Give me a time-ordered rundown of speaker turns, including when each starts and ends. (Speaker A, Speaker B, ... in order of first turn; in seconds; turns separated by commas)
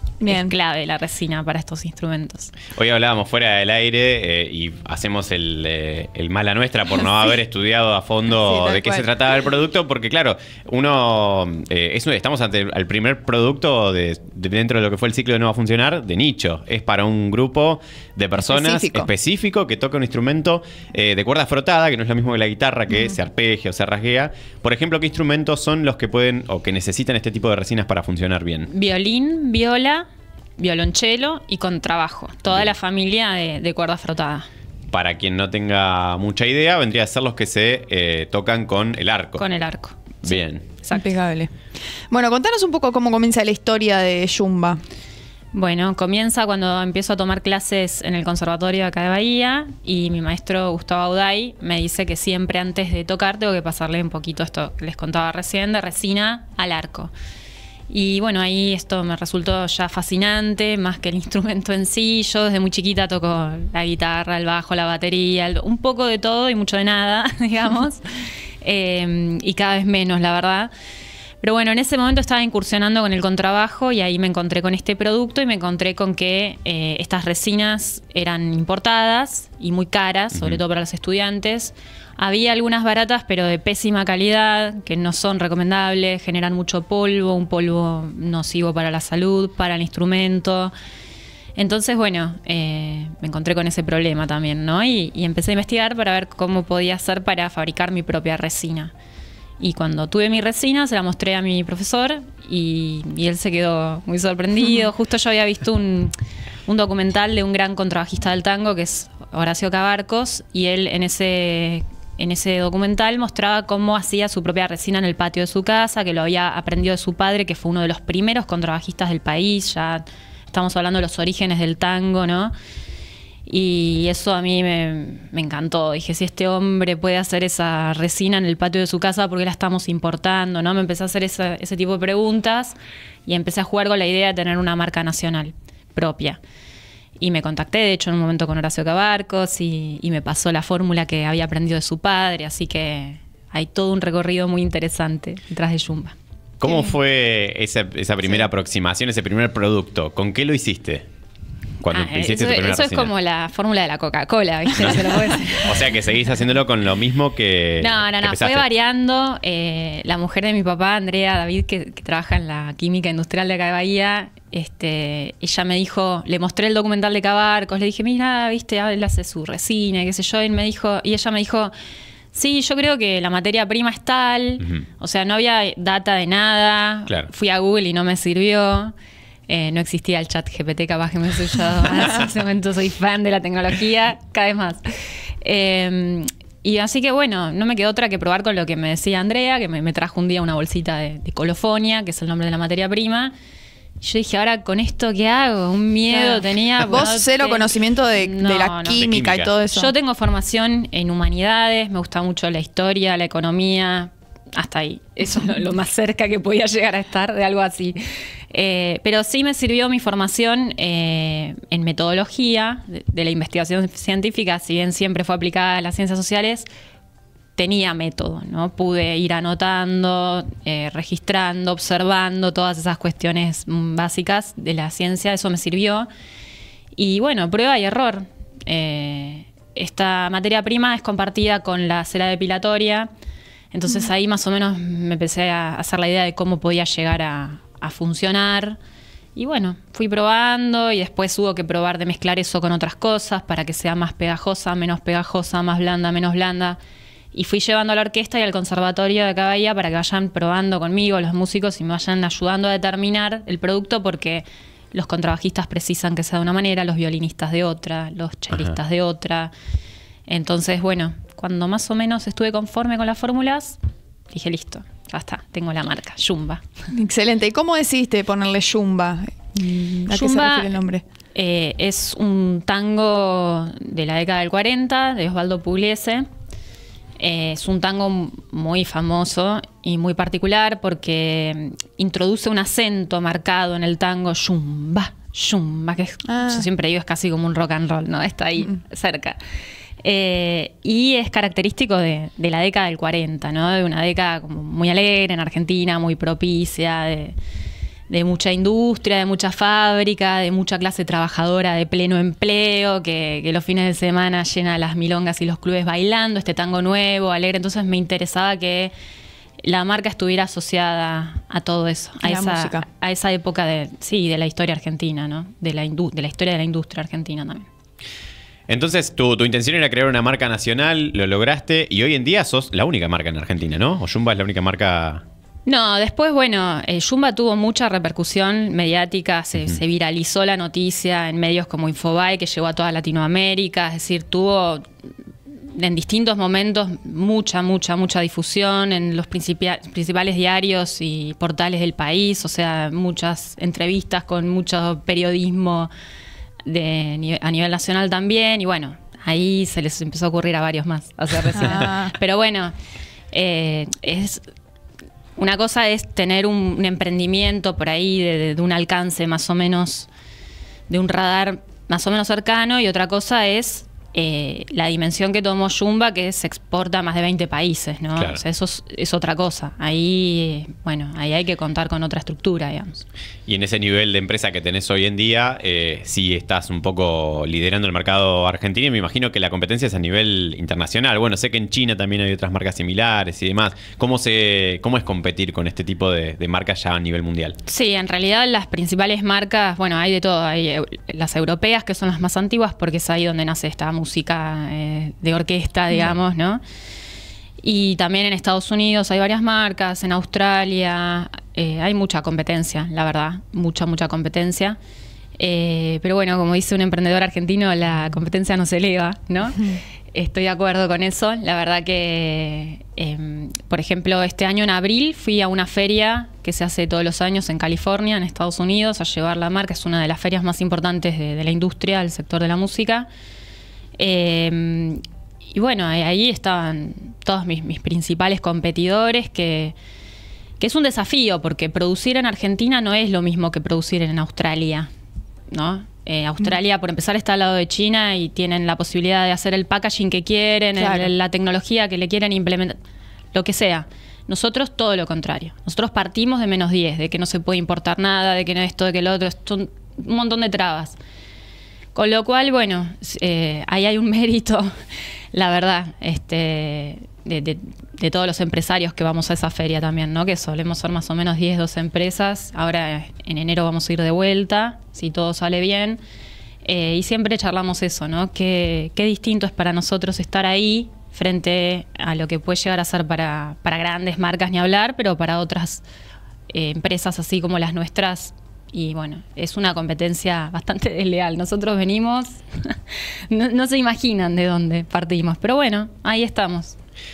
Speaker A: 0.2-0.5, Speaker B: 0.3-2.5, Speaker C: 2.8-28.7, Speaker A: 8.3-9.1, Speaker A: 18.4-19.1, Speaker B: 28.7-30.1, Speaker B: 30.6-34.5, Speaker C: 34.9-39.4, Speaker B: 39.4-41.0, Speaker C: 40.2-40.6, Speaker A: 40.9-41.5, Speaker A: 42.1-44.8, Speaker B: 45.5-57.1, Speaker B: 57.9-68.0, Speaker B: 68.6-70.7, Speaker B: 71.4-90.7, Speaker C: 80.3-80.6, Speaker B: 91.6-98.9, Speaker B: 99.6-106.1, Speaker B: 106.7-122.5, Speaker B: 123.5-136.4, Speaker B: 137.2-146.1, Speaker C: 146.6-151.1, Speaker A: 146.6-146.9, Speaker C: 151.8-153.1, Speaker B: 151.9-155.8, Speaker C: 154.8-158.6, Speaker B: 157.8-171.7, Speaker B: 172.3-178.9, Speaker B: 179.5-184.8, Speaker B: 185.4-193.3, Speaker B: 194.0-199.0, Speaker A: 196.1-199.9, Speaker C: 198.9-199.5, Speaker B: 199.7-216.7, Speaker B: 217.6-226.1, Speaker B: 227.0-233.1, Speaker B: 233.7-238.8, Speaker B: 239.3-246.8, Speaker B: 247.3-259.5, Speaker B: 260.3-263.8, Speaker B: 264.3-266.6, Speaker A: 266.9-271.0, Speaker B: 270.1-270.7, Speaker B: 271.3-276.3, Speaker B: 277.2-289.4, Speaker A: 286.2-286.7, Speaker B: 290.0-297.4, Speaker B: 298.1-308.9, Speaker B: 309.6-317.7, Speaker A: 312.2-312.9, Speaker C: 318.7-325.2, Speaker B: 325.6-334.8, Speaker B: 335.7-345.9, Speaker B: 346.6-352.7, Speaker A: 351.5-352.1, Speaker B: 353.3-354.4, Speaker B: 355.4-360.1, Speaker B: 360.9-373.0, Speaker C: 373.5-387.6, Speaker B: 387.7-396.6, Speaker B: 397.6-404.8, Speaker B: 405.4-423.1, Speaker B: 424.0-429.7, Speaker B: 430.6-434.9, Speaker B: 435.5-442.8, Speaker A: 440.8-441.1, Speaker B: 443.3-451.0, Speaker B: 451.9-454.7, Speaker B: 455.3-466.0, Speaker B: 466.6-475.8, Speaker B: 476.5-486.8